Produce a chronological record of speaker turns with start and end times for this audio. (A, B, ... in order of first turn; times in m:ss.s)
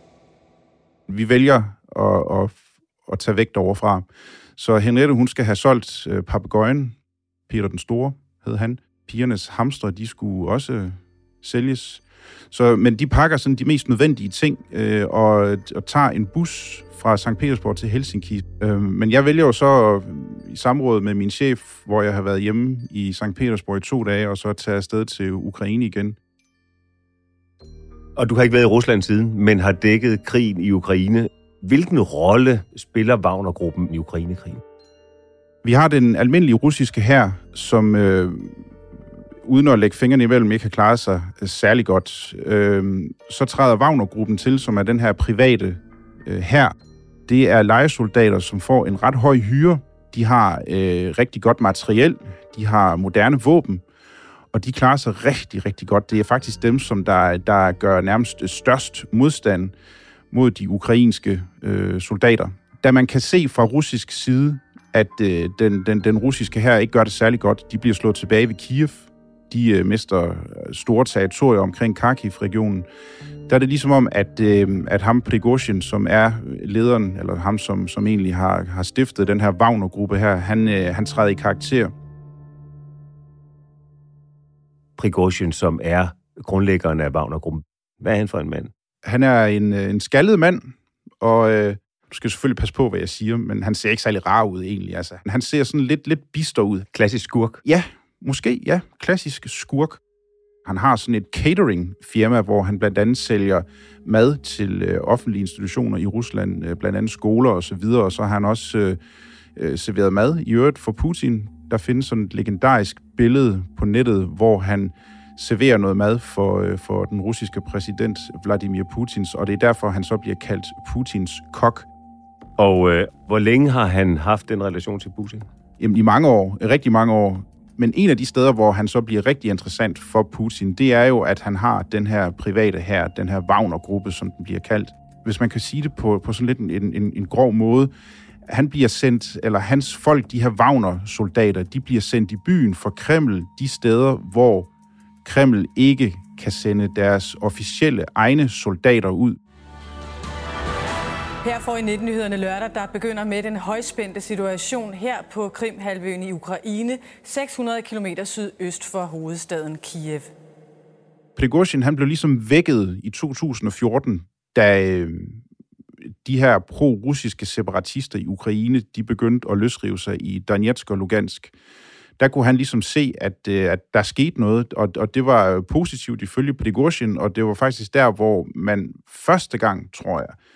0:01.1-0:07.0 A
0:07.5-0:26.2 A
0:28.2-0:34.6 B
0:35.6-0:38.6 A
0:39.4-0:46.7 A
0:47.3-0:53.8 A
0:54.5-0:59.7 A
1:00.3-1:12.9 A
1:13.5-1:21.9 A
1:25.0-1:28.7 B
1:29.0-1:36.9 A
1:36.9-1:37.6 B
1:37.6-1:40.0 A
1:40.6-1:49.0 A
1:49.6-2:01.9 A
2:02.6-2:05.4 B
2:05.8-2:17.9 A
2:18.5-2:24.7 A
2:25.2-2:29.4 A
2:31.4-2:40.3 C
2:41.4-2:45.4 A
2:46.2-2:51.5 A
2:52.2-3:00.4 A